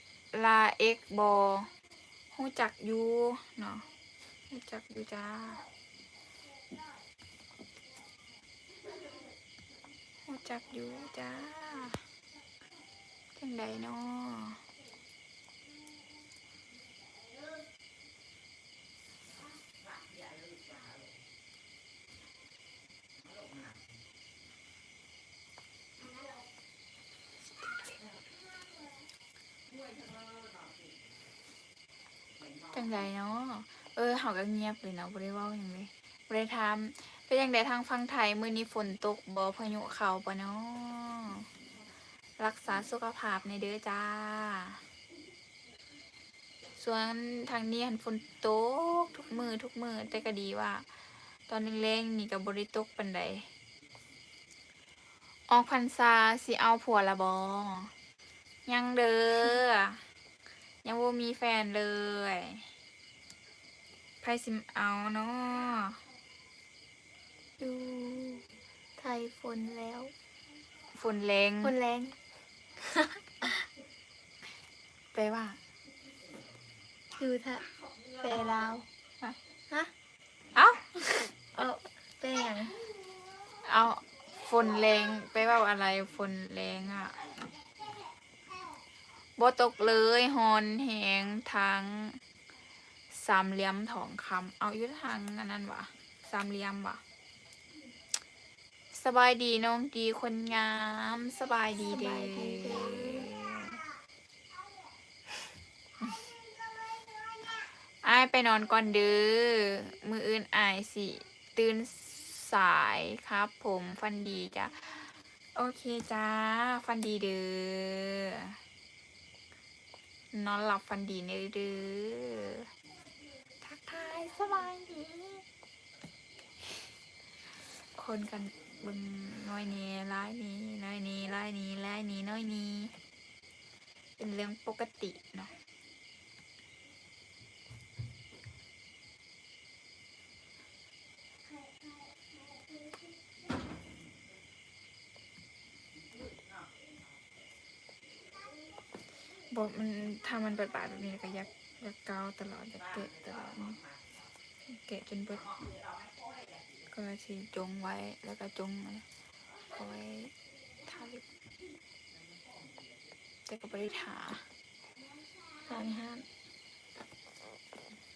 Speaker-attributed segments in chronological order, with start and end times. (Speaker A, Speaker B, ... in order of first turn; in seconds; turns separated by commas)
Speaker A: 0.3-1.7, Speaker A: 2.3-3.9, Speaker A: 4.5-5.6, Speaker A: 10.3-12.0, Speaker A: 13.4-14.6, Speaker A: 32.7-41.5, Speaker A: 42.4-44.8, Speaker A: 46.8-50.9, Speaker A: 51.5-53.5, Speaker A: 55.5-57.9, Speaker A: 58.7-60.0, Speaker A: 60.8-62.7, Speaker A: 64.2-66.0, Speaker B: 67.6-68.5, Speaker B: 69.0-70.1, Speaker A: 71.0-71.8, Speaker B: 71.6-72.2, Speaker B: 72.8-73.6, Speaker A: 75.1-75.6, Speaker B: 77.2-78.9, Speaker A: 80.5-81.3, Speaker B: 81.5-82.8, Speaker A: 83.6-87.3, Speaker A: 89.4-92.2, Speaker A: 93.1-97.0, Speaker A: 98.9-103.8, Speaker B: 101.8-103.3, Speaker A: 108.0-118.6, Speaker A: 120.3-122.7, Speaker A: 123.6-125.4, Speaker A: 127.8-132.9, Speaker A: 134.2-135.5, Speaker A: 149.5-153.8, Speaker A: 154.7-155.6, Speaker A: 156.9-159.1, Speaker A: 159.7-160.3, Speaker A: 160.8-161.2, Speaker A: 163.5-164.5, Speaker B: 165.6-166.3